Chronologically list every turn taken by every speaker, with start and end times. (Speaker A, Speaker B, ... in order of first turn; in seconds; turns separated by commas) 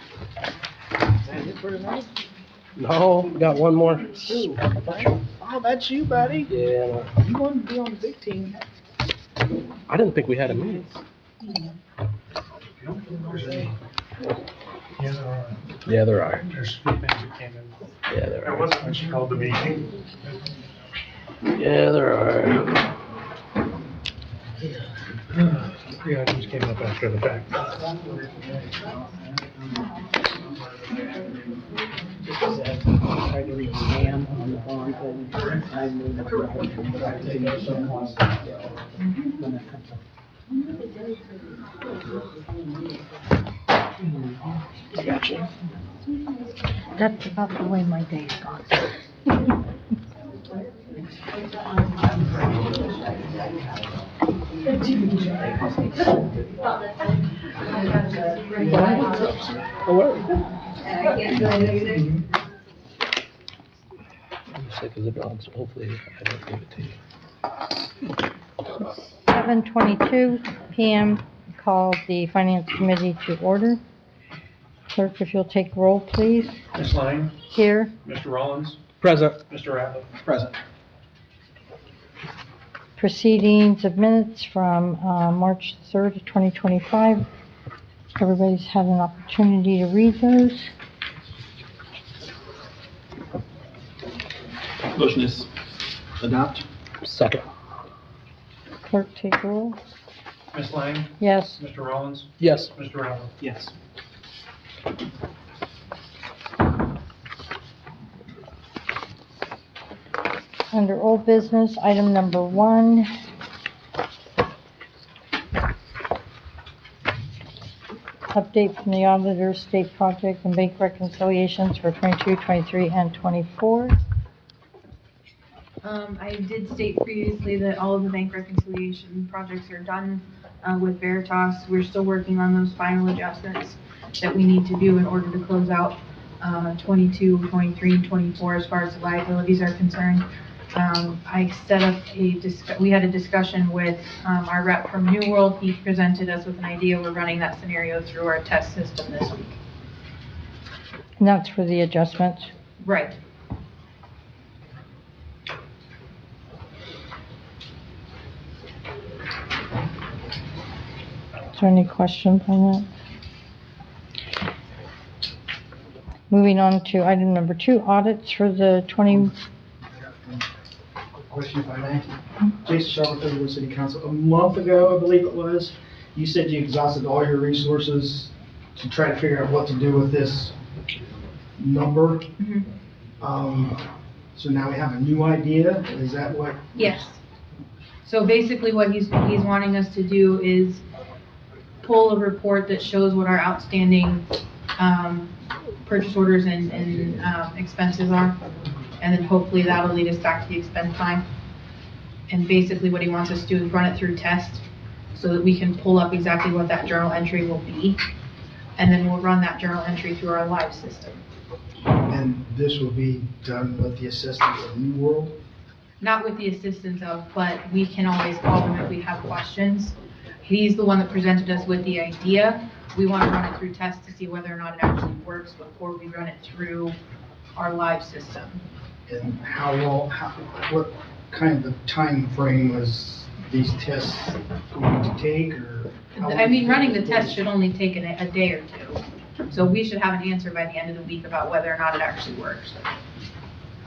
Speaker A: 1.3-2.1, Speaker B: 2.8-4.4, Speaker A: 4.3-6.5, Speaker B: 6.5-7.1, Speaker A: 7.2-8.5, Speaker B: 9.9-10.8, Speaker A: 10.4-10.8, Speaker C: 12.8-13.8, Speaker C: 15.0-15.6, Speaker B: 15.9-16.5, Speaker C: 16.5-17.8, Speaker B: 18.1-18.8, Speaker C: 18.4-19.9, Speaker B: 21.5-22.7, Speaker C: 26.0-27.7, Speaker A: 32.3-38.2, Speaker A: 39.4-39.9, Speaker D: 47.0-48.9, Speaker E: 58.6-59.6, Speaker B: 58.7-59.1, Speaker B: 59.9-60.2, Speaker B: 64.5-66.9, Speaker D: 69.3-73.8, Speaker D: 74.9-76.6, Speaker C: 76.7-77.3, Speaker D: 77.5-77.9, Speaker C: 78.0-78.8, Speaker B: 79.0-79.4, Speaker C: 79.4-80.5, Speaker D: 83.0-87.3, Speaker D: 88.2-90.7, Speaker E: 95.0-95.5, Speaker E: 96.2-96.6, Speaker B: 97.0-97.4, Speaker D: 98.8-99.8, Speaker C: 100.5-103.3, Speaker D: 101.2-101.6, Speaker B: 102.4-102.7, Speaker D: 110.7-113.1, Speaker D: 118.3-124.0, Speaker F: 125.8-149.6, Speaker D: 151.2-152.5, Speaker F: 152.8-153.2, Speaker D: 161.5-162.9, Speaker D: 166.3-169.3, Speaker E: 169.9-170.5, Speaker E: 171.2-180.6, Speaker E: 181.6-182.3, Speaker F: 182.4-182.7, Speaker E: 183.2-183.8, Speaker E: 184.3-187.0, Speaker F: 186.8-187.2, Speaker F: 188.0-190.8, Speaker F: 191.8-194.2, Speaker F: 194.8-195.3, Speaker F: 195.8-198.4, Speaker F: 199.0-201.2, Speaker F: 202.3-208.0, Speaker F: 208.8-211.2, Speaker E: 212.1-215.3, Speaker F: 216.0-227.0, Speaker F: 227.6-228.6, Speaker E: 229.1-237.4, Speaker F: 236.2-242.8